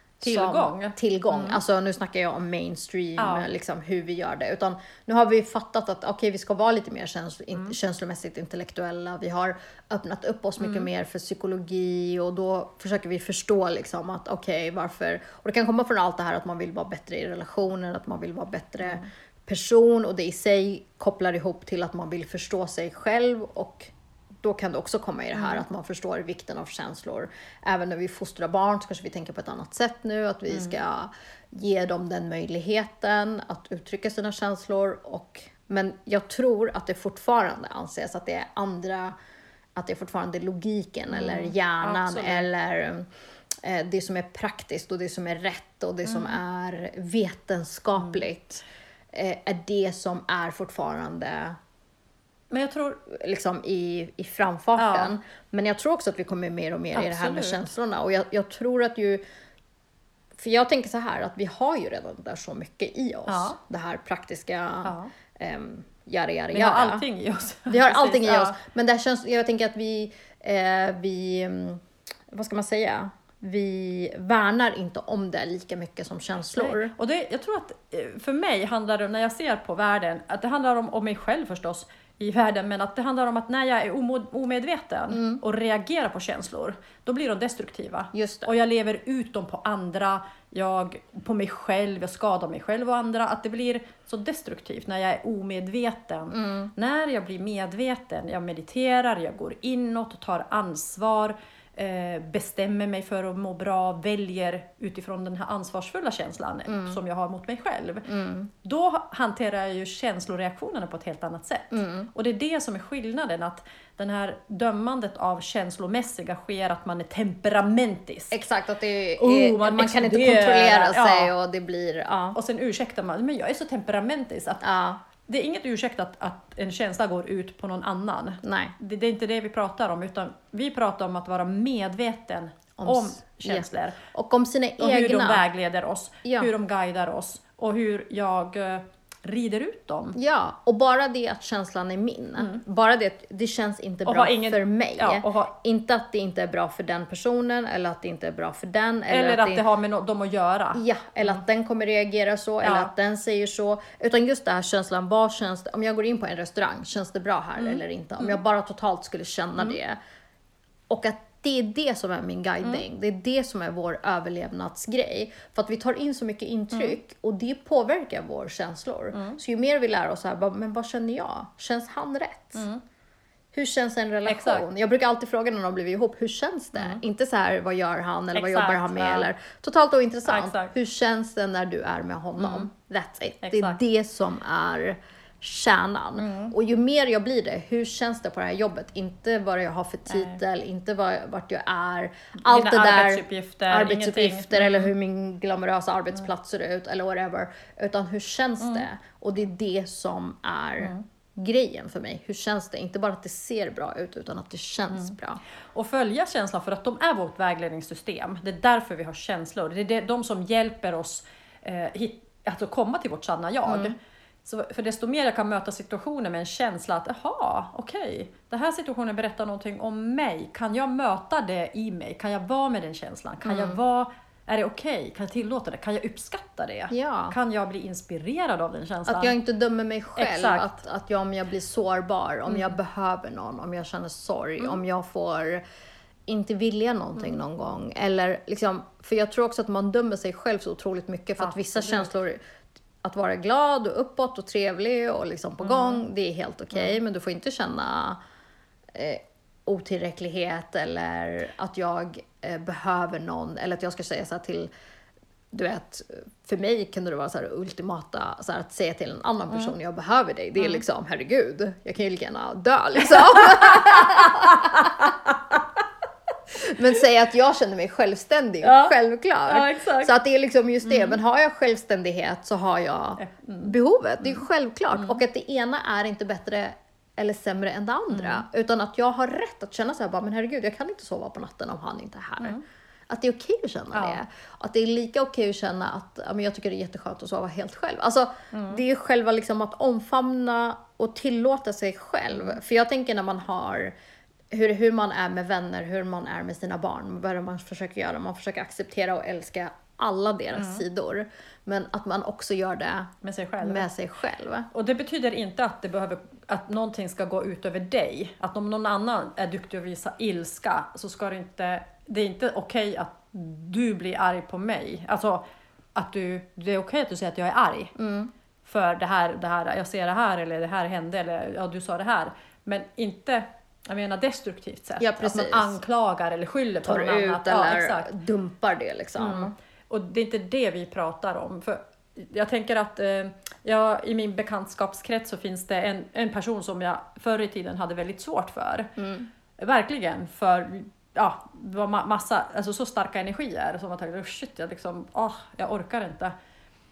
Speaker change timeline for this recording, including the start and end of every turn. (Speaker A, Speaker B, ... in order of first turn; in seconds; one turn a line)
Speaker A: 0.2-1.6
Speaker B: 0.2-23.9
Speaker A: 3.2-3.5
Speaker A: 10.6-10.9
Speaker B: 24.4-39.1
Speaker A: 25.4-25.6
Speaker B: 39.8-43.1
Speaker A: 41.1-42.5
Speaker B: 43.6-51.6
Speaker A: 46.0-46.4
Speaker A: 52.5-53.0
Speaker B: 53.1-59.2
Speaker A: 54.8-55.1
Speaker A: 56.9-57.6
Speaker B: 60.4-67.0
Speaker A: 63.3-63.6
Speaker A: 64.8-65.1
Speaker A: 66.5-68.6
Speaker B: 67.7-76.9
Speaker A: 76.5-108.1
Speaker B: 85.1-85.4
Speaker B: 88.1-88.5
Speaker B: 96.3-96.7
Speaker B: 106.7-107.0
Speaker B: 108.0-108.5
Speaker A: 108.6-118.3
Speaker B: 111.7-112.1
Speaker B: 118.3-122.4
Speaker A: 119.2-121.3
Speaker A: 122.3-124.6
Speaker B: 124.6-125.0
Speaker A: 125.3-134.0
Speaker B: 128.4-128.8
Speaker B: 132.8-135.4
Speaker A: 134.8-140.2
Speaker B: 136.2-136.5
Speaker B: 140.1-149.6
Speaker A: 144.0-145.5
Speaker A: 149.1-151.4
Speaker B: 150.7-160.0
Speaker A: 152.6-152.9
Speaker A: 157.6-158.4
Speaker B: 160.9-172.7
Speaker A: 172.6-172.8
Speaker B: 173.5-205.4
Speaker A: 174.3-174.6
Speaker A: 178.3-179.3
Speaker A: 180.2-180.7
Speaker A: 182.4-182.7
Speaker A: 183.4-183.8
Speaker A: 186.2-186.5
Speaker A: 190.1-190.4
Speaker A: 192.4-194.9
Speaker A: 198.6-198.8
Speaker A: 205.7-229.3
Speaker B: 213.7-213.9
Speaker B: 223.4-223.8
Speaker B: 226.9-227.3
Speaker B: 229.1-235.6
Speaker A: 230.2-230.8
Speaker B: 236.3-242.4
Speaker A: 241.4-242.1
Speaker B: 243.0-248.2
Speaker A: 245.6-246.0
Speaker B: 248.9-254.7
Speaker B: 255.5-265.0
Speaker A: 263.1-264.9
Speaker B: 266.6-293.9
Speaker A: 268.6-268.9
Speaker A: 269.5-270.1
Speaker A: 270.8-271.2
Speaker A: 273.2-274.4
Speaker A: 278.1-278.4
Speaker A: 283.9-284.2
Speaker A: 288.5-288.8
Speaker B: 294.5-303.1
Speaker A: 300.5-300.8
Speaker A: 303.2-303.9
Speaker B: 303.6-304.7
Speaker A: 304.7-315.4
Speaker A: 315.9-317.9
Speaker B: 318.0-318.3
Speaker A: 318.6-328.1
Speaker B: 325.0-325.8
Speaker B: 326.8-329.5
Speaker A: 329.2-338.9
Speaker B: 339.0-339.3
Speaker A: 339.6-346.3